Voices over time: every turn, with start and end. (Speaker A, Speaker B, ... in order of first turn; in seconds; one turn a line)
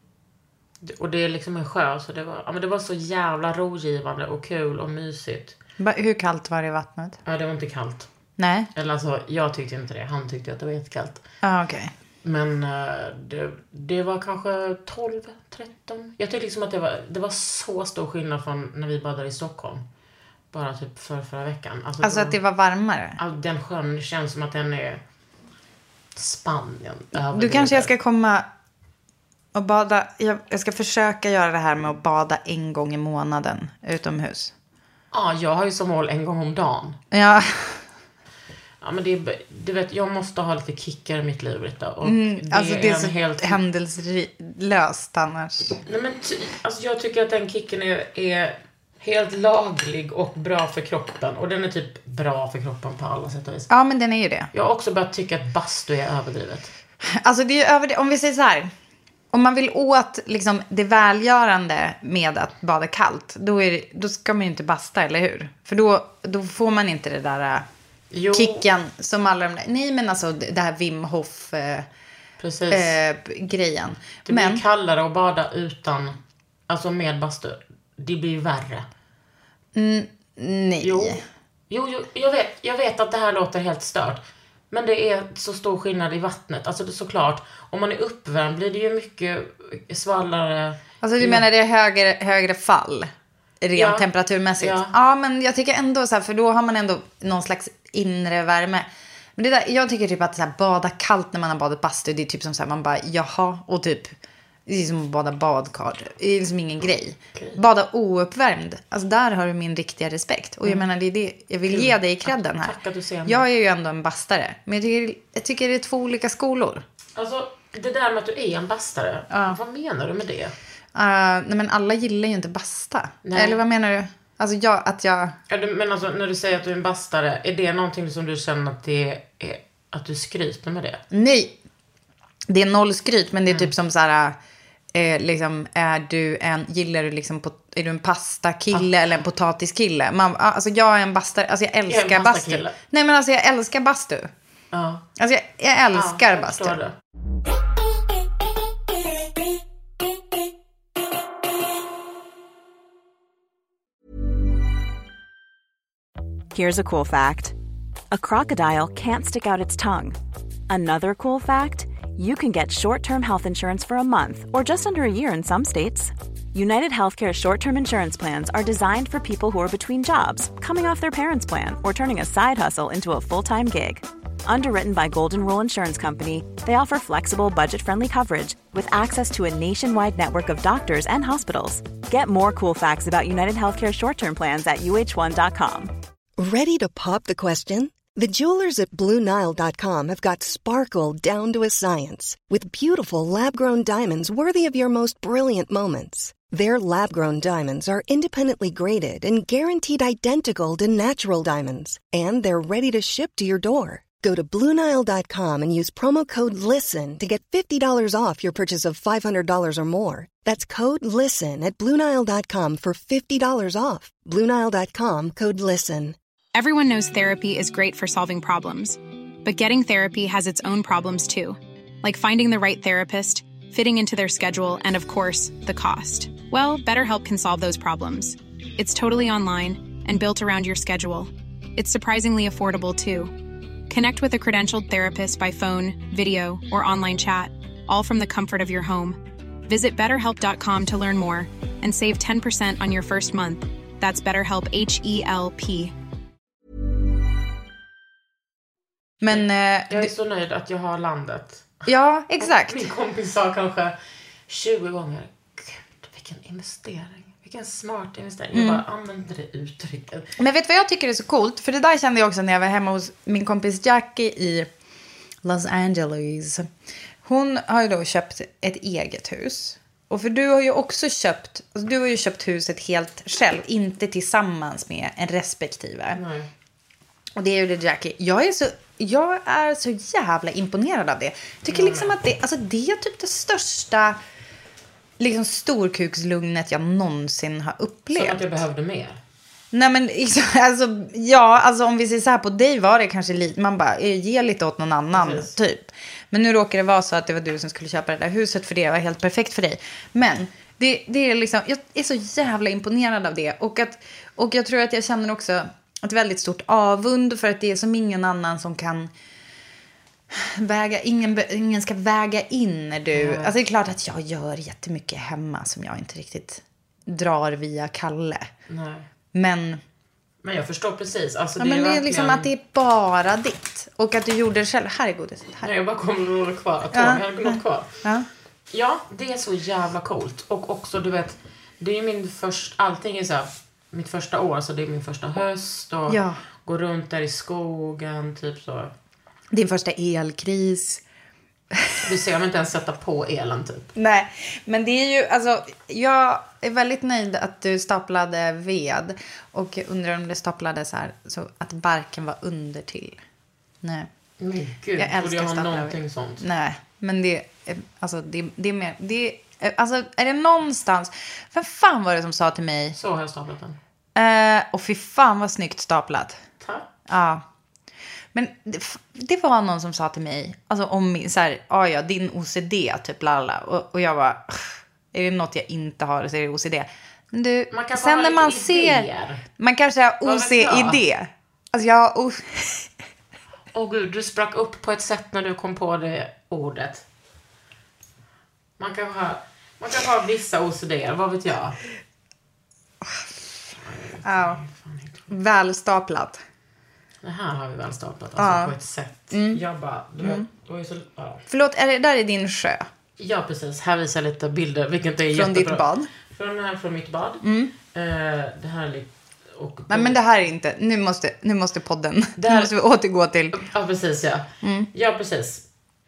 Speaker A: 0.8-5.6
Speaker B: 5.8-7.2
Speaker A: 7.2-8.1
Speaker B: 8.4-8.7
Speaker A: 8.8-11.2
Speaker B: 11.4-11.9
Speaker A: 12.2-19.8
Speaker A: 20.5-22.4
Speaker B: 22.0-23.2
Speaker A: 23.2-25.0
Speaker A: 26.2-27.9
Speaker B: 27.3-28.5
Speaker B: 29.5-34.5
Speaker A: 35.1-37.0
Speaker B: 37.1-37.8
Speaker A: 38.8-43.6
Speaker B: 42.0-45.8
Speaker A: 45.9-53.7
Speaker B: 53.7-54.5
Speaker A: 54.5-56.7
Speaker B: 57.0-58.7
Speaker B: 59.3-67.7
Speaker A: 68.1-68.7
Speaker B: 68.3-71.9
Speaker A: 72.4-73.0
Speaker B: 72.7-74.6
Speaker A: 74.3-76.2
Speaker A: 76.7-78.9
Speaker B: 79.8-81.2
Speaker A: 80.8-91.5
Speaker B: 91.0-104.2
Speaker A: 93.8-94.1
Speaker A: 94.6-94.9
Speaker B: 104.7-116.8
Speaker A: 111.7-113.4
Speaker A: 117.2-120.5
Speaker B: 119.3-119.6
Speaker B: 120.9-125.4
Speaker A: 123.2-123.6
Speaker A: 125.5-131.0
Speaker B: 131.1-131.6
Speaker B: 132.5-134.4
Speaker B: 134.9-144.3
Speaker A: 141.9-142.8
Speaker A: 144.7-145.1
Speaker B: 145.2-146.8
Speaker A: 145.9-146.9
Speaker C: 156.5-157.6
Speaker C: 158.1-160.2
Speaker C: 160.7-185.9
Speaker D: 186.4-216.2
Speaker E: 216.6-233.3
Speaker E: 233.9-245.9
Speaker B: 249.2-250.1
Speaker A: 249.3-251.9
Speaker B: 251.9-252.8
Speaker A: 252.4-253.9
Speaker A: 254.5-260.3
Speaker B: 258.5-258.8
Speaker B: 260.4-264.7
Speaker B: 265.4-266.7
Speaker B: 267.2-276.2
Speaker A: 276.1-276.5
Speaker B: 277.4-284.2
Speaker A: 281.7-282.1
Speaker B: 285.2-288.4
Speaker A: 288.1-289.2
Speaker B: 289.7-309.1
Speaker A: 295.1-295.5
Speaker B: 310.3-318.5
Speaker A: 313.1-313.6
Speaker A: 318.7-319.1
Speaker B: 319.3-319.8
Speaker A: 320.4-322.5
Speaker B: 321.6-325.7
Speaker A: 325.6-328.0
Speaker B: 326.9-328.3
Speaker A: 328.7-338.9
Speaker B: 336.1-336.4
Speaker B: 339.5-341.0
Speaker A: 342.0-343.9
Speaker B: 344.0-353.2
Speaker B: 353.8-354.1
Speaker A: 354.4-356.4
Speaker B: 355.0-363.0
Speaker A: 362.9-363.8
Speaker B: 364.2-366.4
Speaker A: 366.6-366.9
Speaker B: 367.1-367.4
Speaker B: 368.3-382.9
Speaker A: 377.7-379.4
Speaker A: 380.2-381.0
Speaker A: 383.7-387.0
Speaker A: 388.8-391.8
Speaker A: 393.8-395.3
Speaker B: 394.2-394.6
Speaker B: 395.3-396.4
Speaker A: 397.2-401.4
Speaker B: 398.4-398.7
Speaker B: 399.3-399.6
Speaker B: 401.5-402.9
Speaker A: 403.2-410.2
Speaker B: 405.3-406.1
Speaker B: 407.4-407.7
Speaker B: 409.9-413.6
Speaker A: 412.4-412.7
Speaker A: 413.5-415.6
Speaker B: 414.6-414.9